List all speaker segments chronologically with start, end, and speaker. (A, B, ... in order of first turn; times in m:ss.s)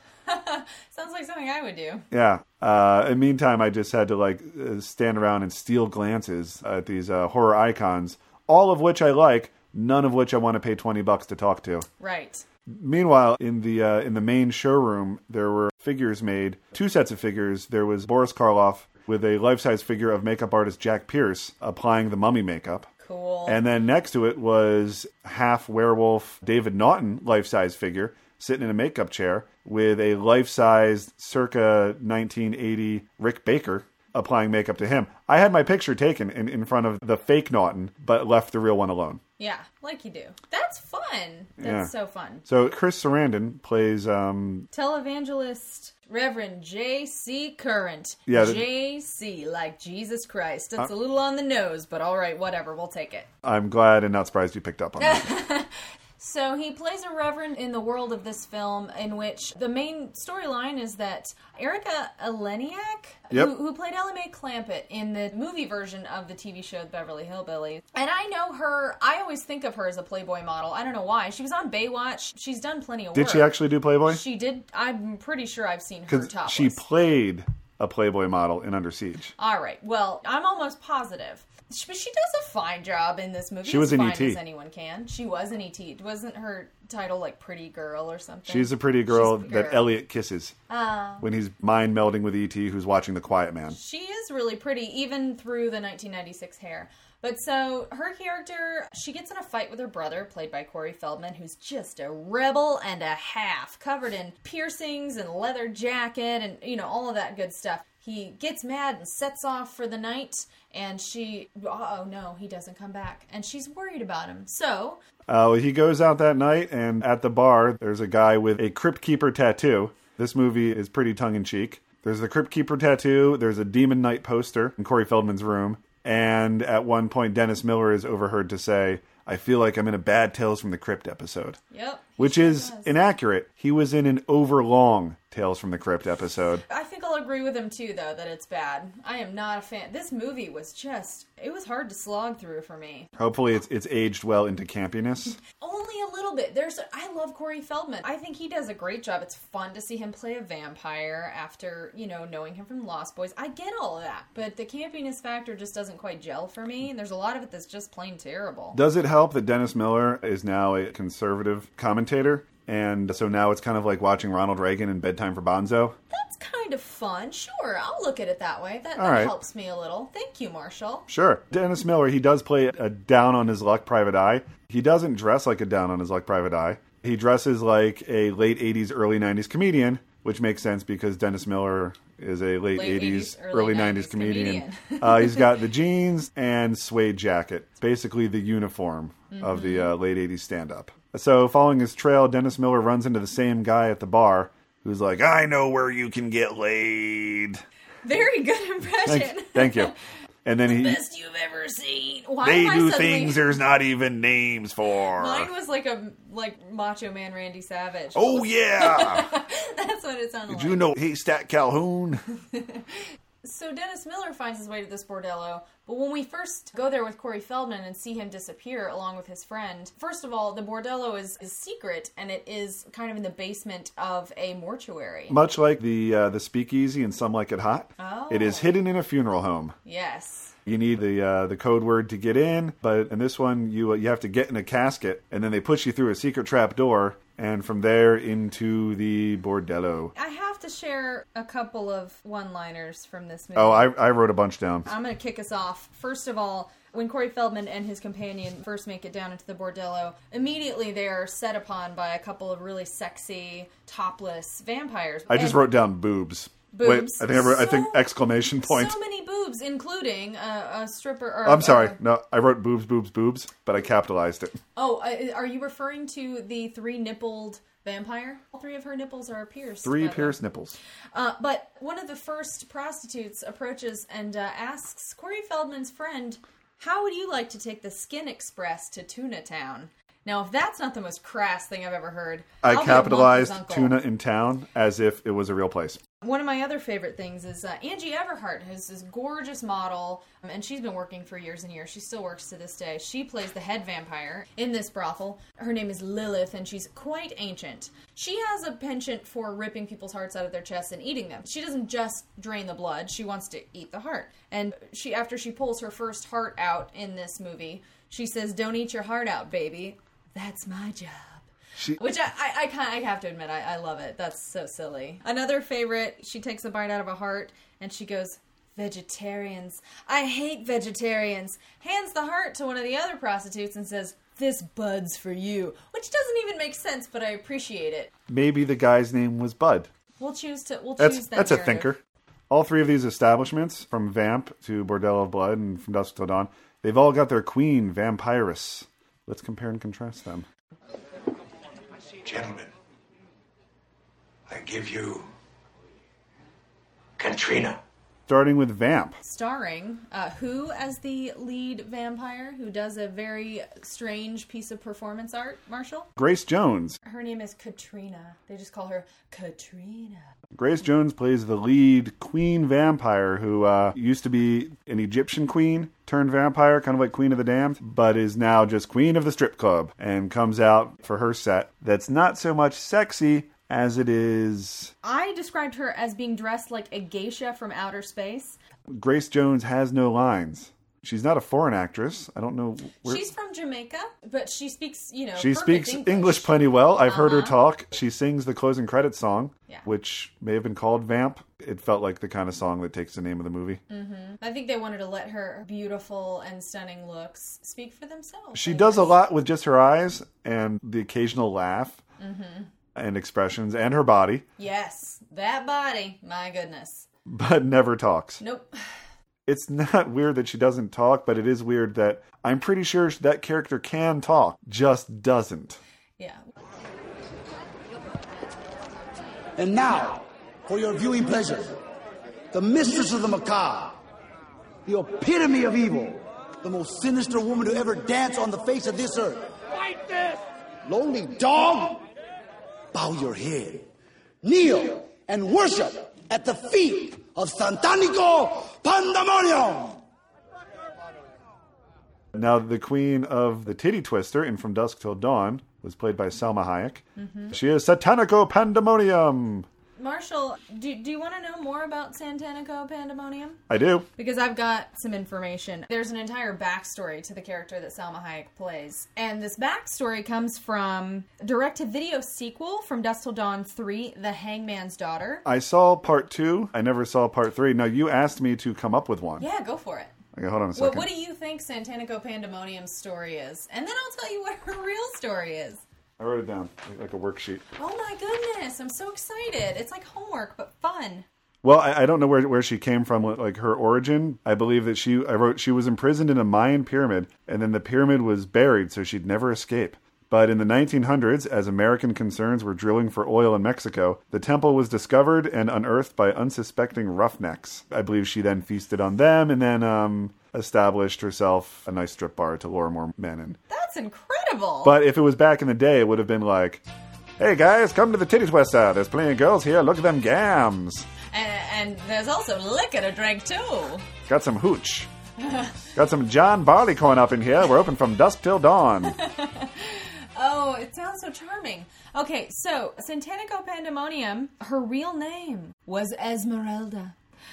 0:00.3-0:02.0 A
0:02.1-0:11.9 B
0:12.0-0:12.4 A
0:12.7-0:22.9 B
0:23.0-0:23.6 A
0:23.5-0:39.2 B
0:39.4-0:42.4 A
0:41.6-0:41.9 B
0:42.4-0:44.7 B
0:44.7-0:53.3 A
0:48.3-0:48.7 B
0:53.4-0:55.3 B
0:55.0-1:13.5 A
1:13.1-1:14.2 B
1:14.1-1:16.8 A
1:16.1-1:19.3 B
1:19.4-1:29.9 A
1:23.6-1:24.4 B
1:28.5-1:30.6 B
1:30.7-1:31.3 A
1:31.2-1:33.8 B
1:33.7-1:55.0 A
1:55.3-2:11.6 B
2:11.7-2:13.0 A
2:12.2-2:16.6 B
2:16.7-2:23.1 A
2:23.2-2:25.4 B
2:25.6-2:38.8 A
2:38.7-2:46.0 B
2:46.1-2:51.1 A
2:49.0-2:49.4 B
2:51.1-3:17.6 B
3:02.7-3:05.5 A
3:09.3-3:09.9 A
3:18.0-3:20.0 A
3:19.0-3:19.9 B
3:20.4-3:21.0 B
3:20.6-3:23.6 A
3:22.4-3:25.5 B
3:25.2-3:30.9 A
3:28.2-3:29.3 B
3:30.5-3:32.2 B
3:32.5-3:32.9 A
3:33.4-3:45.4 A
3:45.3-3:49.8 B
3:48.0-3:48.8 A
3:49.8-3:50.6 A
3:50.7-4:00.1 B
4:00.2-4:04.0 A
4:03.6-4:04.9 B
4:04.9-4:15.7 A
4:15.3-4:19.0 B
4:16.7-4:22.0 A
4:21.4-4:24.6 B
4:24.8-4:30.4 A
4:29.8-4:30.8 B
4:31.1-4:44.0 A
4:42.6-4:46.0 B
4:46.2-5:28.1 A
5:28.3-5:29.9 B
5:30.2-5:31.9 A
5:31.0-5:32.0 B
5:32.5-5:40.5 B
5:42.2-5:42.7 C
5:44.5-5:45.3 C
5:47.2-5:47.8 C
5:48.3-5:49.2 B
5:49.2-5:56.1 A
5:56.2-5:57.0 B
5:57.0-6:00.3 A
6:00.6-6:14.9 B
6:15.0-6:18.6 A
6:18.9-6:23.2 B
6:23.0-6:27.6 A
6:25.4-6:33.8 B
6:33.9-6:39.2 A
6:38.5-6:42.0 B
6:42.2-6:42.7 A
6:43.0-6:44.4 B
6:44.6-6:47.1 A
6:47.3-6:48.4 B
6:48.4-6:48.7 A
6:49.5-6:55.8 B
6:59.6-7:01.8 D
7:02.5-7:04.0 D
7:04.9-7:09.5 D
7:10.8-7:12.0 D
7:12.9-7:13.9 D
7:14.4-7:20.0 D
7:22.3-7:29.7 B
7:27.2-7:27.5 A
7:30.0-7:33.6 A
7:33.7-7:34.1 B
7:34.2-7:45.4 A
7:45.4-7:49.4 B
7:49.4-7:50.1 A
7:50.3-7:51.1 B
7:50.8-7:55.8 A
7:56.2-7:57.6 B
7:57.8-8:01.3 A
8:01.6-8:23.6 B
8:23.7-8:25.0 A
8:24.8-8:26.8 B
8:27.4-8:31.1 B
8:31.3-8:34.1 A
8:34.3-8:35.1 B
8:35.4-8:35.8 A
8:36.0-8:39.2 B
8:39.0-8:47.2 A